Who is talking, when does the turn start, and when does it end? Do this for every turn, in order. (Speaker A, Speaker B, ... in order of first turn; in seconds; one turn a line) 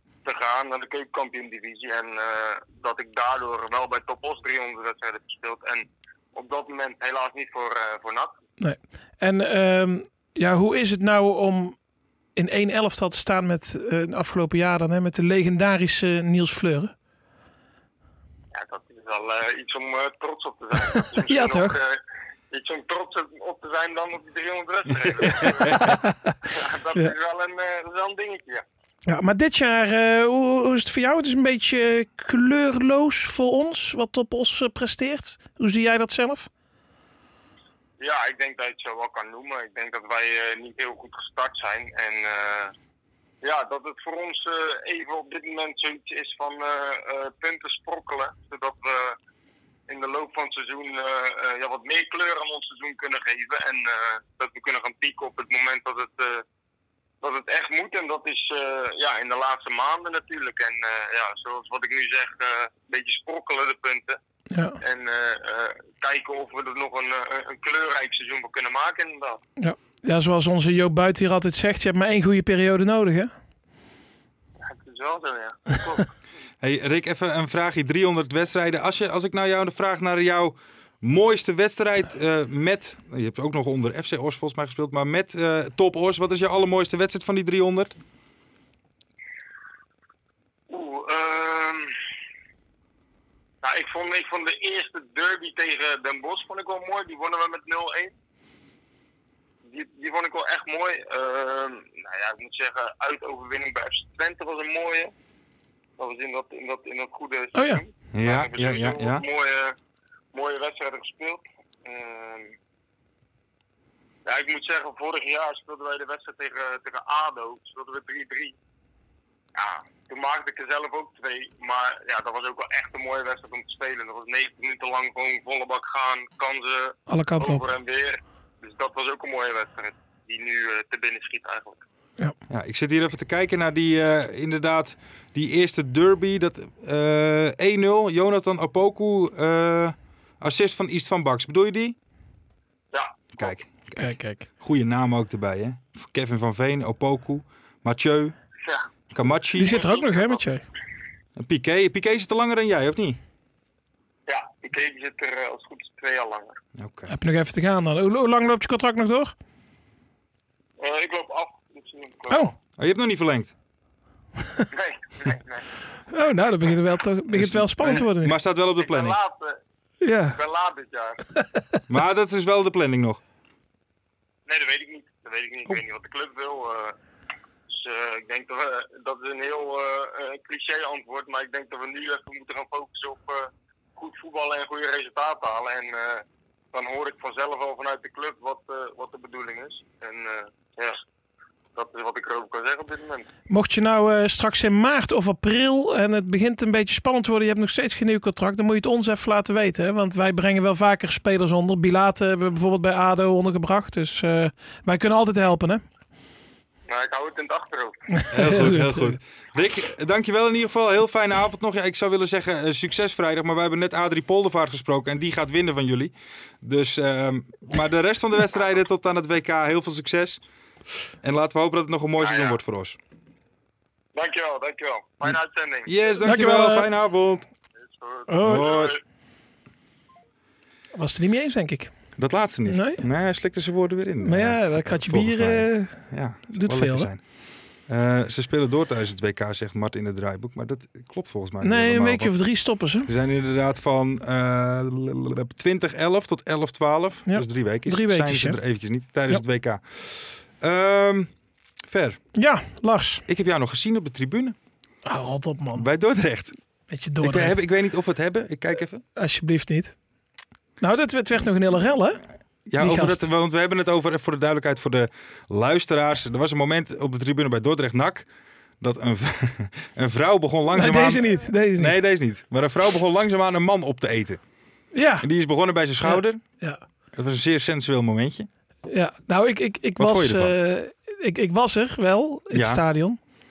Speaker A: 0.2-8.3
Speaker B: 8.6-11.8
Speaker B: 12.3-16.9
Speaker A: 18.5-26.0
Speaker B: 21.2-21.8
Speaker C: 25.4-26.0
Speaker B: 25.6-26.4
Speaker A: 26.5-28.6
Speaker B: 29.1-36.5
Speaker A: 38.0-42.7
Speaker A: 43.4-49.2
Speaker A: 49.9-56.4
Speaker A: 57.2-64.2
Speaker B: 64.5-64.8
Speaker A: 64.8-69.4
Speaker B: 69.6-73.3
Speaker A: 74.6-76.1
Speaker C: 76.6-88.0
Speaker A: 90.7-91.9
Speaker A: 93.6-98.1
Speaker A: 99.6-105.1
Speaker A: 106.0-109.8
Speaker B: 107.5-107.8
Speaker C: 108.1-109.2
Speaker A: 110.3-112.5
Speaker A: 114.2-118.6
Speaker A: 119.5-131.8
Speaker B: 127.1-127.6
Speaker C: 132.5-141.9
Speaker A: 142.9-143.5
Speaker C: 143.4-148.3
Speaker B: 144.0-144.5
Speaker C: 149.1-149.8
Speaker B: 149.6-150.6
Speaker A: 149.6-150.4
Speaker C: 151.4-153.2
Speaker A: 154.3-156.6
Speaker C: 156.8-157.1
Speaker B: 157.1-159.3
Speaker A: 160.8-162.5
Speaker C: 162.8-163.5
Speaker A: 164.7-165.7
Speaker B: 166.1-168.3
Speaker C: 167.3-169.2
Speaker A: 168.8-169.6
Speaker B: 170.0-170.4
Speaker A: 170.3-171.2
Speaker C: 171.9-173.2
Speaker A: 174.4-177.0
Speaker A: 177.7-191.0
Speaker A: 191.7-193.3
Speaker B: 193.5-205.8
Speaker A: 206.9-208.0
Speaker B: 208.2-209.2
Speaker C: 208.3-220.4
Speaker C: 221.2-223.0
Speaker A: 222.2-222.6
Speaker A: 224.1-226.0
Speaker C: 225.8-227.5
Speaker B: 226.2-226.9
Speaker A: 227.8-229.0
Speaker B: 228.3-228.7
Speaker C: 228.4-228.9
Speaker B: 230.9-231.9
Speaker C: 232.2-237.2
Speaker B: 232.7-233.0
Speaker B: 234.2-237.1
Speaker C: 237.9-242.3
Speaker B: 241.6-243.1
Speaker C: 243.1-249.8
Speaker B: 247.3-248.6
Speaker C: 250.6-251.3
Speaker C: 251.9-252.2
Speaker B: 252.3-253.2
Speaker C: 253.3-254.6
Speaker B: 255.1-255.9
Speaker C: 255.7-256.5
Speaker B: 256.9-257.6
Speaker C: 257.2-259.0
Speaker B: 259.1-259.9
Speaker B: 260.8-262.2
Speaker C: 262.6-268.3
Speaker B: 262.8-263.3
Speaker C: 268.8-274.4
Speaker B: 270.7-272.0
Speaker B: 274.9-275.2
Speaker C: 275.2-276.4
Speaker B: 276.0-276.8
Speaker C: 277.1-278.5
Speaker B: 278.9-283.2
Speaker C: 280.0-280.6
Speaker C: 282.5-282.8